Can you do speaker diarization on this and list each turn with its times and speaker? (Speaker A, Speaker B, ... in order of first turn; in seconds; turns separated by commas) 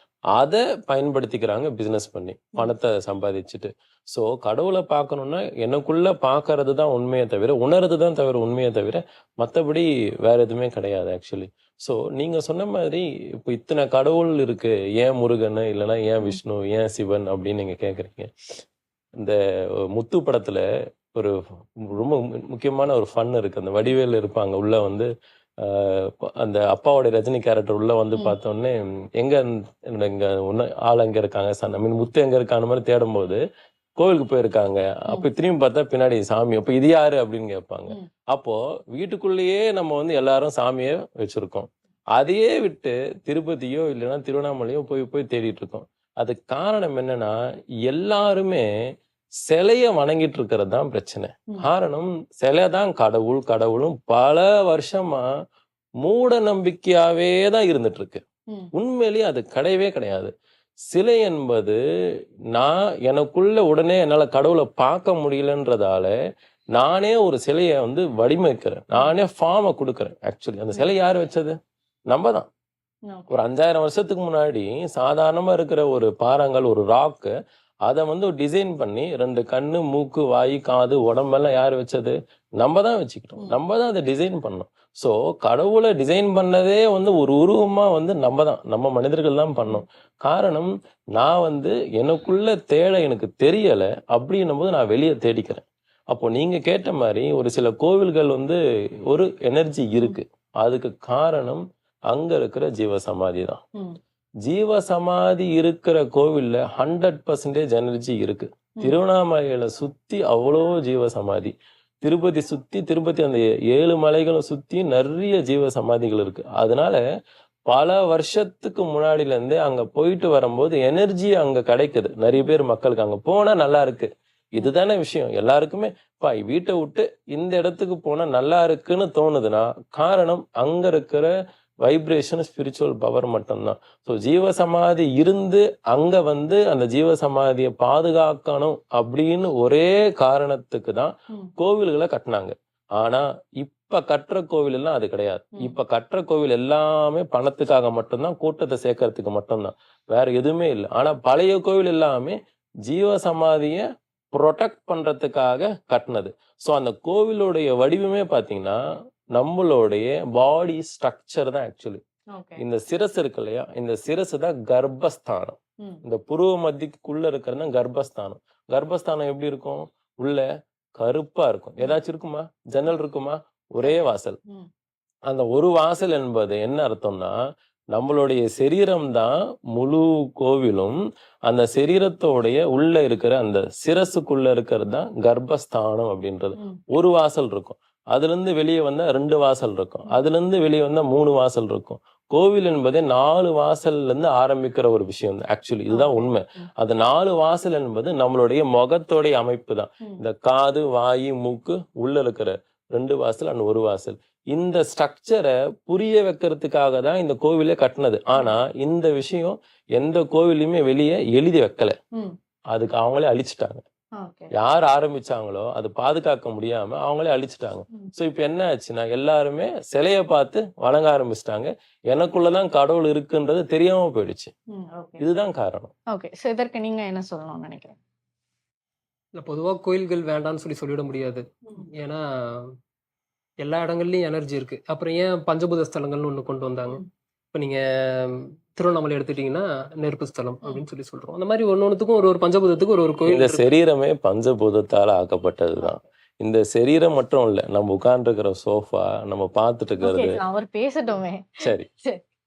Speaker A: 0.3-18.3, Speaker A: 19.9-20.6, Speaker A: 21.1-25.1, Speaker A: 25.6-33.4, Speaker A: 34.0-48.7, Speaker A: 49.5-55.3, Speaker A: 56.0-58.2, Speaker A: 58.7-60.3, Speaker A: 60.9-61.8, Speaker A: 62.5-66.1, Speaker A: 66.8-71.6, Speaker A: 72.1-72.5, Speaker B: 73.1-73.4, Speaker A: 73.3-77.3, Speaker A: 77.9-103.6, Speaker A: 104.4-117.0, Speaker A: 117.7-131.3, Speaker A: 131.8-158.8, Speaker A: 159.3-162.0, Speaker B: 162.3-162.6, Speaker A: 162.6-170.5, Speaker A: 171.0-174.4, Speaker B: 173.8-174.7, Speaker A: 175.3-177.4, Speaker A: 177.9-181.0, Speaker A: 181.5-212.0, Speaker B: 195.9-196.7, Speaker A: 212.7-213.8, Speaker B: 214.2-214.5, Speaker A: 214.6-224.5, Speaker B: 224.7-225.2, Speaker A: 225.2-225.9, Speaker B: 226.1-227.9, Speaker C: 229.4-232.8, Speaker C: 233.6-237.0, Speaker C: 237.5-243.6, Speaker A: 243.3-250.4, Speaker B: 250.0-252.2, Speaker A: 251.6-251.9